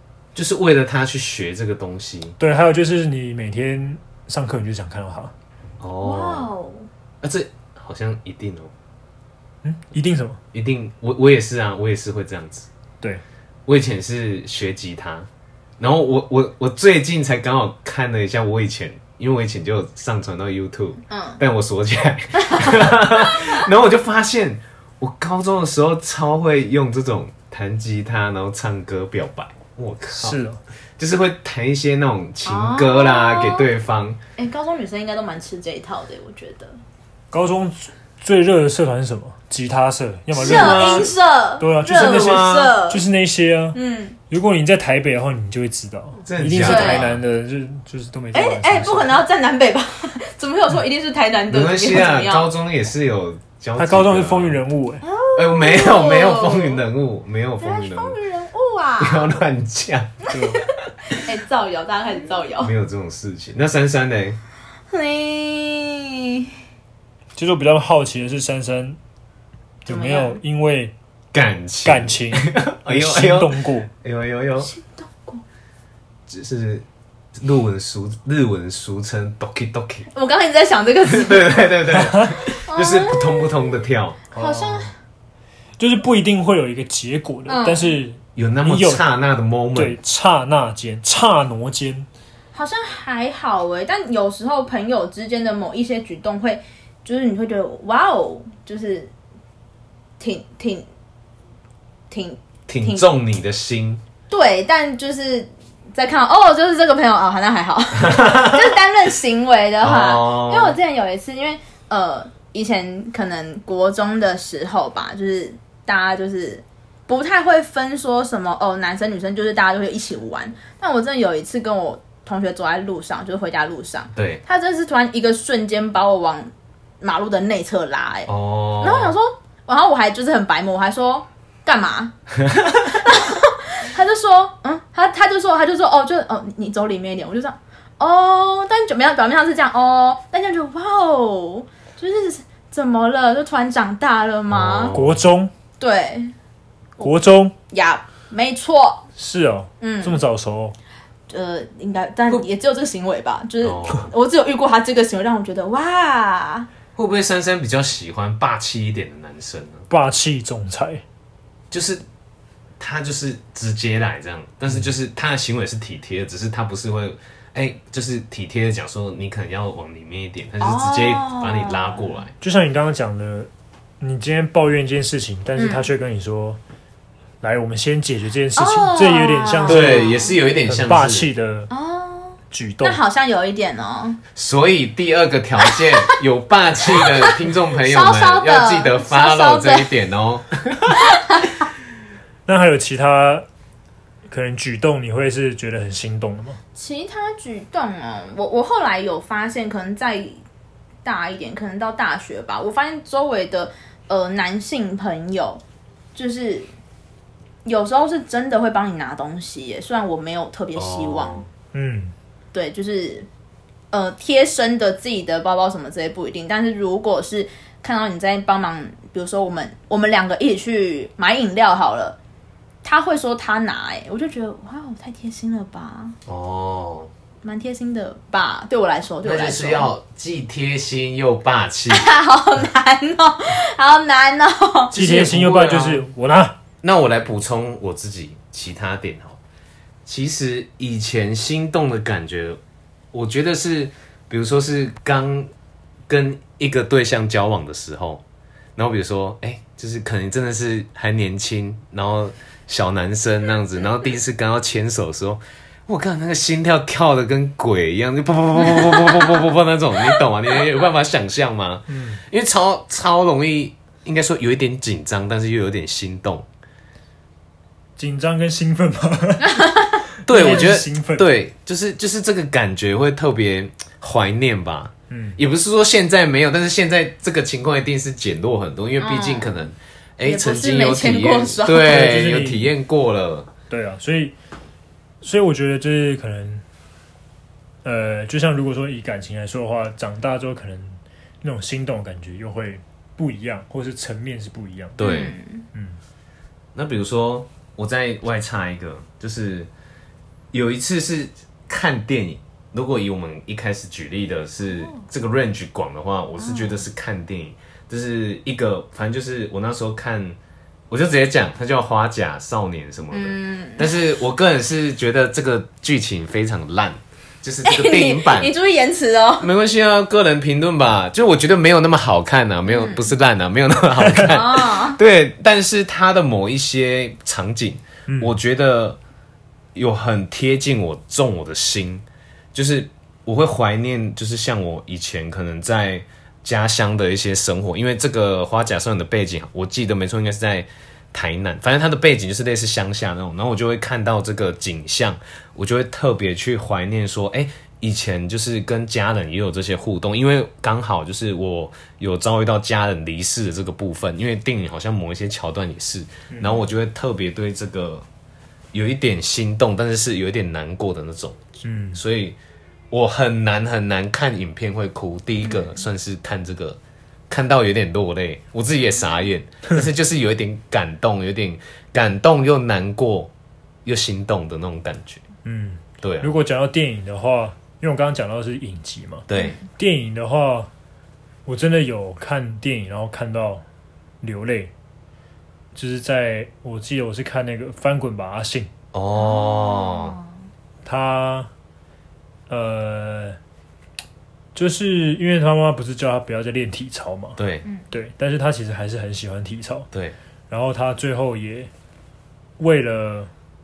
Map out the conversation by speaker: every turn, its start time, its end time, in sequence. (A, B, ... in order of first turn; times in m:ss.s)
0:00.3-0:02.4 A
0:02.4-0:05.3 B
0:05.8-0:06.5 A
0:06.0-0:06.9 C
0:07.2-0:08.7 A
0:09.6-0:10.4 B
0:10.5-0:12.7 A
0:13.7-0:15.3 A
0:15.8-0:30.4 A
0:21.1-0:21.4 C
0:22.4-0:23.6 C
0:30.2-0:30.6 B
0:31.0-0:34.2 A
0:32.4-0:33.7 C
0:34.4-0:36.8 C
0:37.3-0:43.8 B
0:40.4-0:41.1 A
0:40.4-0:43.0 C
0:41.9-0:42.7 A
0:43.7-0:44.2 C
0:44.3-0:49.2 B
0:46.2-0:47.2 A
0:46.6-0:47.1 C
0:48.3-0:52.5 C
0:51.5-0:54.6 A
0:53.8-0:55.0 B
0:55.0-0:56.8 C
0:55.3-0:58.2 A
0:57.6-0:59.3 C
0:59.0-1:00.2 A
1:00.3-1:02.7 C
1:00.3-1:00.6 B
1:02.6-1:04.4 A
1:04.9-1:06.5 C
1:07.4-1:09.0 B
1:09.8-1:10.4 C
1:09.8-1:10.9 B
1:11.3-1:14.7 A
1:11.8-1:13.9 B
1:14.6-1:15.4 C
1:16.3-1:16.8 A
1:17.4-1:20.1 A
1:20.1-1:21.7 C
1:21.0-1:24.2 A
1:21.9-1:22.3 B
1:22.5-1:23.5 C
1:24.3-1:24.9 B
1:24.3-1:24.9 C
1:25.8-1:29.0 B
1:27.5-1:28.0 C
1:28.4-1:30.0 A
1:29.8-1:32.1 B
1:32.5-1:39.1 C
1:40.2-1:40.8 C
1:42.1-1:43.0 C
1:42.7-1:44.0 A
1:44.3-2:08.3 C
1:48.0-1:48.7 A
1:49.8-1:50.8 A
2:04.1-2:04.4 A
2:08.3-2:09.1 A
2:08.8-2:12.1 C
2:12.4-2:12.9 A
2:12.8-2:24.9 C
2:24.5-2:25.2 A
2:24.9-2:25.5 B
2:25.8-2:26.3 C
2:27.0-2:27.5 B
2:27.7-2:29.0 C
2:29.2-2:30.8 B
2:29.8-2:30.2 C
2:31.3-2:36.7 C
2:33.6-2:34.1 A
2:36.9-2:39.9 A
2:39.9-2:41.0 B
2:41.7-2:42.0 A
2:42.8-2:52.3 A
2:50.6-2:52.2 C
2:52.4-2:56.6 B
2:55.6-2:55.9 C
2:57.4-3:01.7 B
2:58.6-3:00.4 C
2:59.6-3:01.3 A
3:01.7-3:04.2 C
3:02.5-3:03.0 B
3:04.3-3:11.2 A
3:05.6-3:06.1 C
3:06.9-3:09.9 C
3:11.1-3:11.4 C
3:12.4-3:13.4 B
3:14.3-3:16.6 B
3:16.7-3:20.4 C
3:21.0-3:25.6 C
3:26.1-3:26.7 C
3:27.6-3:31.4 C
3:30.7-3:31.5 A
3:31.7-3:32.1 B
3:32.5-3:33.3 C
3:33.9-3:42.2 C
3:42.8-3:46.2 C
3:46.3-3:47.1 A
3:47.4-3:49.9 C
3:49.2-3:52.1 A
3:51.9-3:55.0 C
3:54.9-3:56.6 B
3:54.9-3:56.0 A
3:56.8-3:59.4 A
4:00.0-4:02.6 A
4:03.1-4:05.5 A
4:06.1-4:08.2 A
4:08.8-4:26.4 A
4:21.9-4:22.2 B
4:28.0-4:31.3 B
4:29.5-4:30.0 C
4:30.2-4:43.5 A
4:35.1-4:35.4 B
4:39.0-4:39.6 C
4:40.2-4:41.9 C
4:41.8-4:42.7 B
4:43.7-4:44.3 B
4:45.2-4:46.6 B
4:47.8-4:55.0 B
4:55.0-4:55.3 A
4:55.0-4:55.6 C
4:55.7-4:56.0 B
4:56.7-4:59.7 A
5:00.5-5:10.4 A
5:06.4-5:06.8 C
5:10.9-5:18.5 A
5:13.1-5:14.0 C
5:17.6-5:19.5 C
5:19.4-5:29.0 A
5:22.7-5:23.1 C
5:24.3-5:25.0 C
5:28.1-5:28.3 B
5:29.7-5:58.0 A
5:56.3-5:56.6 B
5:58.7-6:02.4 A
6:01.6-6:02.0 B
6:02.9-6:06.8 A
6:05.4-6:05.7 C
6:07.3-6:13.3 A
6:13.8-6:15.2 A
6:15.4-6:20.7 B
6:16.0-6:16.3 A
6:19.3-6:19.6 A
6:21.4-6:23.6 B
6:24.2-6:24.7 B
6:25.7-6:28.7 B
6:28.9-6:30.2 A
6:29.1-6:30.3 C
6:30.8-6:31.5 B
6:32.5-6:33.4 B
6:34.5-6:37.4 B
6:37.4-6:37.6 A
6:37.9-6:39.9 B
6:40.5-6:41.7 B
6:42.6-6:43.3 B